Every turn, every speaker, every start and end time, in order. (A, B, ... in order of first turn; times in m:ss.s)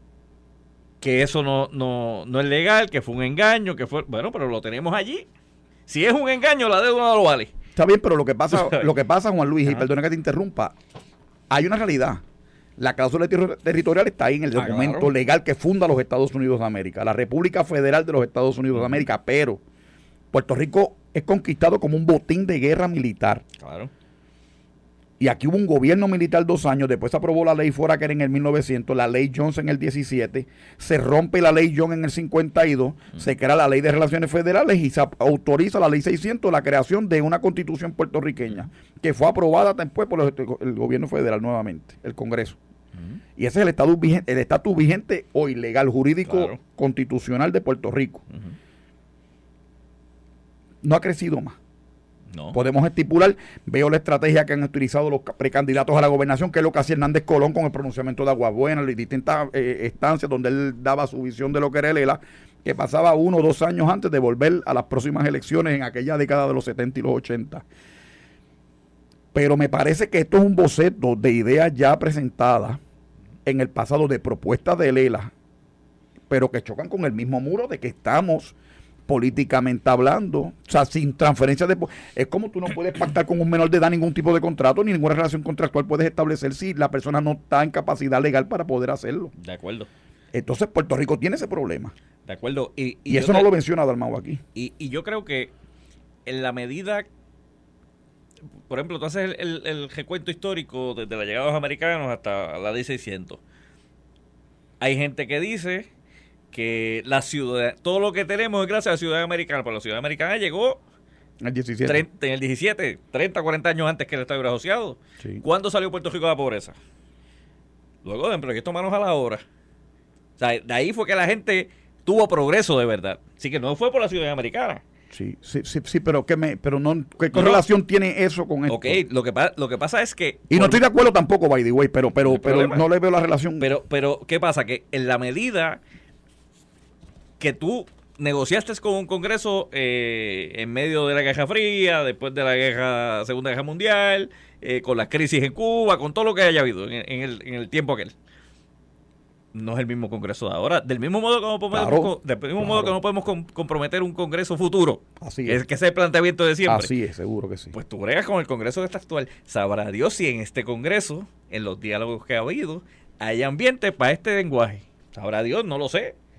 0:01.0-0:05.3 A
0:05.9-0:07.5 A
0:07.8-0:10.8 B
0:08.5-0:08.9 A
0:11.5-0:12.2 B
0:12.8-0:19.6 B
0:14.6-0:15.1 A
0:18.8-0:19.0 A
0:20.3-0:23.4 B
0:23.6-0:23.9 A
0:25.2-0:42.6 B
0:42.9-0:43.2 A
0:43.4-0:48.2 B
0:46.2-0:46.6 A
0:48.3-0:48.6 A
0:50.8-0:51.6 B
0:52.5-1:07.6 B
1:09.3-1:12.8 B
1:13.4-1:15.3 B
1:16.3-1:18.6 B
1:19.1-1:29.3 B
1:29.4-1:29.9 A
1:30.3-1:31.9 B
1:32.3-1:33.5 A
1:33.1-1:34.4 B
1:34.6-1:35.5 A
1:36.3-1:37.1 A
1:38.7-1:43.4 A
1:44.8-1:45.9 A
1:46.5-1:50.8 A
1:51.4-1:52.0 B
1:51.8-1:56.8 A
1:58.0-1:59.4 A
2:00.4-2:04.8 A
2:05.1-2:09.0 B
2:07.3-2:07.6 A
2:08.7-2:10.9 A
2:10.5-2:13.7 B
2:12.2-2:12.8 A
2:13.6-2:15.8 A
2:17.4-2:28.1 A
2:29.5-2:36.9 A
2:31.7-2:32.9 B
2:35.2-2:35.6 B
2:36.7-2:37.7 B
2:37.7-2:46.2 A